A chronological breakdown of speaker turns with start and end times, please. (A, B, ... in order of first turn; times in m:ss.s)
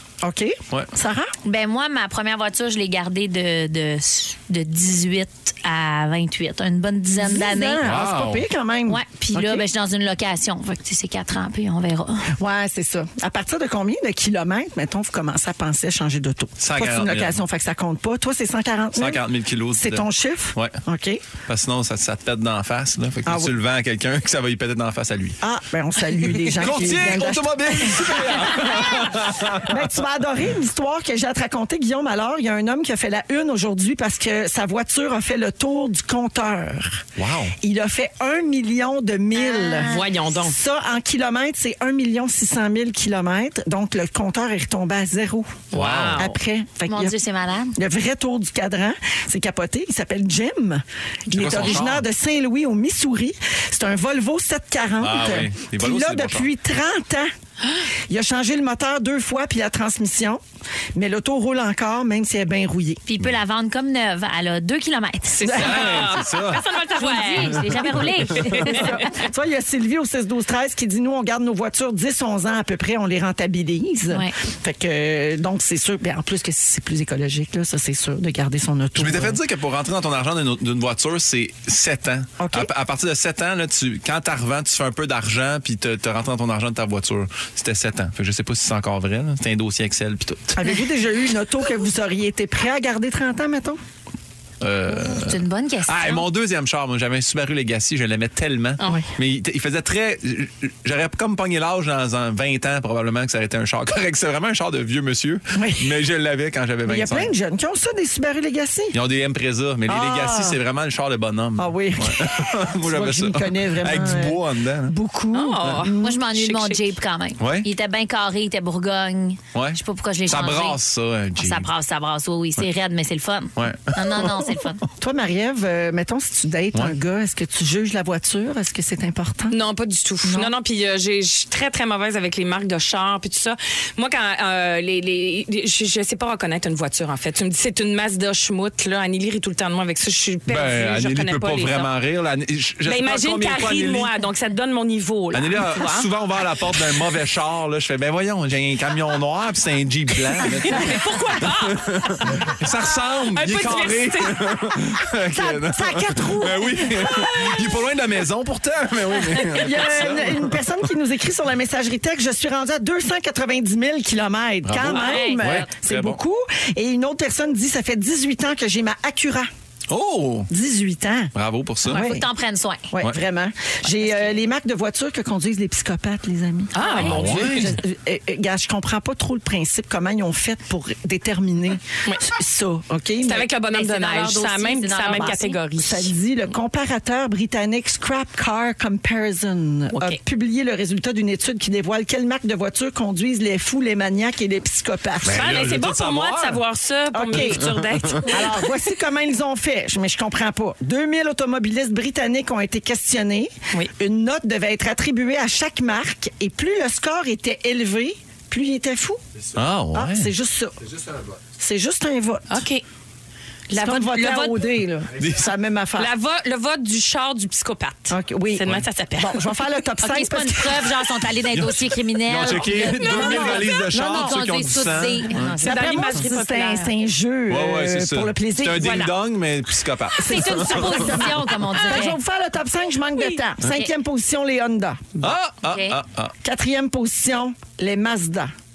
0:00.2-0:01.3 A
0:01.4-0:07.8 B
0:07.1-0:09.6 A
0:07.8-0:08.4 C
0:08.9-0:12.3 B
0:12.3-0:21.2 A
0:16.6-0:17.4 C
0:19.0-0:20.8 C
0:21.5-0:25.4 C
0:23.2-0:23.6 A
0:25.4-0:37.1 A
0:26.3-0:29.8 C
0:37.2-0:37.5 C
0:37.6-0:47.2 A
0:39.4-0:40.1 B
0:39.6-0:40.6 D
0:45.7-0:46.3 D
0:45.7-0:46.3 C
0:46.8-0:47.8 B
0:47.7-0:57.3 A
0:51.3-0:52.0 C
0:55.0-0:56.5 C
0:58.1-1:00.4 A
1:00.9-1:03.0 A
1:03.0-1:05.6 B
1:05.3-1:09.2 D
1:05.4-1:06.1 A
1:05.5-1:06.7 C
1:06.9-1:09.0 B
1:07.6-1:08.0 C
1:08.4-1:19.4 A
1:19.0-1:30.6 C
1:22.4-1:22.7 A
1:30.5-1:33.8 A
1:34.6-1:47.3 C
1:34.9-1:36.2 B
1:45.5-1:46.0 A
1:46.8-1:49.0 A
1:48.9-1:55.0 C
1:49.8-1:50.6 A
1:51.6-1:56.2 A
1:55.3-1:56.9 D
1:56.0-2:00.8 B
1:57.4-1:57.7 C
1:59.5-2:01.7 C
2:01.4-2:04.8 B
2:03.6-2:04.7 C
2:05.0-2:09.6 A
2:09.5-2:21.9 D
2:10.2-2:10.5 A
2:20.5-2:24.1 C
2:22.8-2:26.1 D
2:25.3-2:40.7 C
2:30.4-2:31.9 D
2:33.3-2:34.6 D
2:35.3-2:37.8 A
2:39.4-2:49.5 A
2:44.6-2:46.2 C
2:44.9-2:45.6 B
2:49.9-2:50.5 C
2:50.5-2:51.3 A
2:51.3-2:52.1 C
2:51.8-2:52.3 A
2:51.8-2:52.9 B
2:52.9-3:03.5 A
2:56.7-2:57.6 D
2:56.8-2:57.1 B
2:57.0-2:57.7 C
3:03.2-3:06.1 D
3:03.7-3:05.6 B
3:05.1-3:15.6 A
3:09.9-3:10.2 D
3:15.2-3:16.6 C
3:15.3-3:18.8 D
3:17.1-3:17.7 A
3:17.3-3:18.1 C
3:18.2-3:29.2 A
3:29.5-3:30.3 C
3:29.9-3:30.8 A
3:31.6-3:32.6 A
3:32.5-3:32.8 D
3:33.7-3:36.1 A
3:33.7-3:34.7 D
3:35.2-3:35.4 C
3:36.0-3:39.6 D
3:38.1-3:41.0 A
3:40.0-3:46.3 B
3:41.5-3:45.6 C
3:42.7-3:43.9 D
3:42.9-3:44.4 A
3:45.5-3:49.1 A
3:45.5-3:46.9 D
3:47.5-3:51.1 C
3:48.8-3:49.1 D
3:50.2-3:55.3 A
3:50.2-3:52.2 B
3:55.2-3:56.3 C
3:55.6-3:56.0 B
3:56.4-3:58.5 A